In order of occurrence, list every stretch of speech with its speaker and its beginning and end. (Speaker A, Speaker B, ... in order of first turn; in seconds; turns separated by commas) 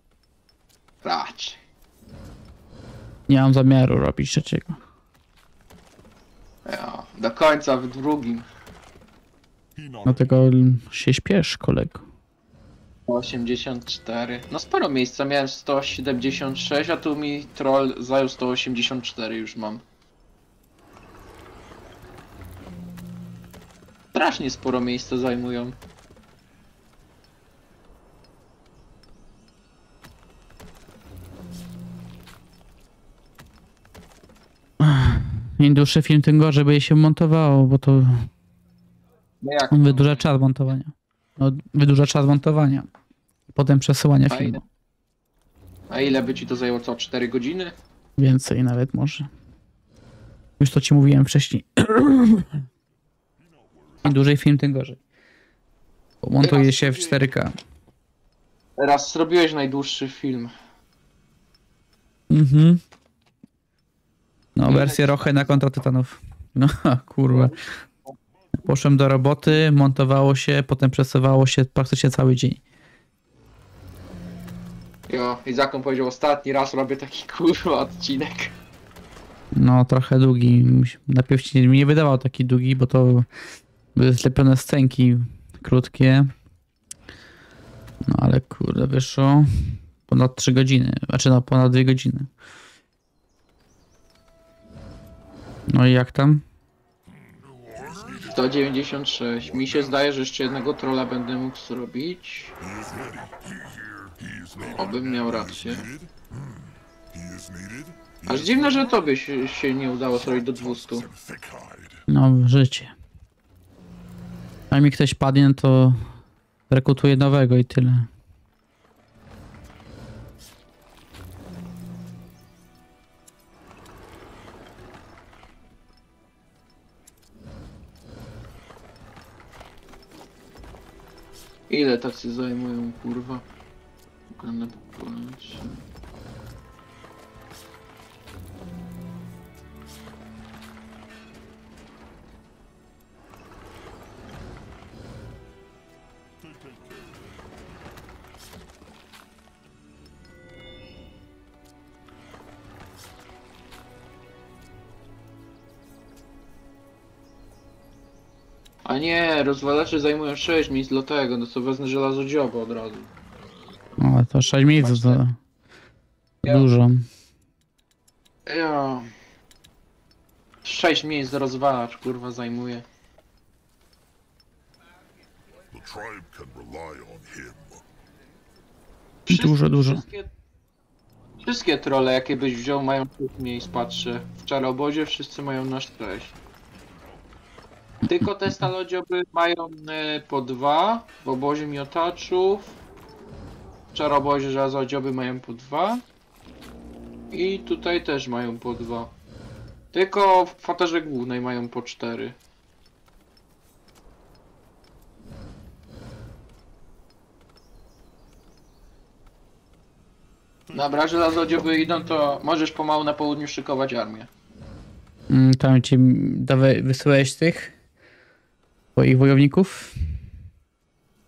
Speaker A: 1.0-1.6, Speaker B: 3.3-4.8, Speaker A: 6.7-8.5, Speaker C: 9.8-10.4, Speaker B: 10.1-12.1, Speaker A: 13.1-19.8, Speaker A: 24.1-25.8, Speaker B: 34.8-38.3, Speaker A: 39.4-40.3, Speaker B: 39.7-42.9, Speaker B: 43.5-44.6, Speaker A: 44.3-44.6, Speaker A: 45.9-47.8, Speaker B: 48.2-49.3, Speaker B: 50.6-52.6, Speaker C: 53.4-54.2, Speaker B: 54.0-55.0, Speaker B: 56.2-57.5, Speaker A: 56.4-57.2, Speaker A: 58.8-60.5, Speaker B: 62.3-62.8, Speaker B: 64.6-67.6, Speaker A: 64.7-65.6, Speaker B: 68.6-72.6, Speaker A: 75.1-78.5, Speaker B: 79.5-83.3, Speaker B: 84.0-86.3, Speaker B: 88.1-92.3, Speaker B: 95.7-96.4, Speaker C: 97.3-98.8, Speaker A: 98.3-102.5, Speaker C: 99.4-100.0, Speaker C: 102.6-108.9, Speaker A: 104.7-105.9, Speaker A: 108.2-111.1, Speaker C: 110.2-112.1, Speaker B: 112.1-112.9, Speaker B: 114.7-116.2, Speaker B: 116.7-118.1, Speaker A: 131.7-133.4, Speaker A: 134.3-135.8, Speaker C: 146.5-147.4, Speaker A: 158.9-163.1, Speaker B: 164.0-165.4, Speaker A: 164.8-165.2, Speaker B: 166.4-167.1, Speaker A: 168.5-169.1, Speaker A: 170.6-172.8, Speaker C: 175.7-177.8, Speaker A: 179.3-180.3, Speaker B: 179.3-180.1, Speaker A: 181.4-186.3, Speaker A: 188.1-192.7, Speaker A: 193.9-196.0, Speaker A: 197.3-199.1, Speaker A: 199.9-202.4, Speaker A: 210.7-214.3, Speaker B: 215.3-217.7, Speaker B: 219.0-220.2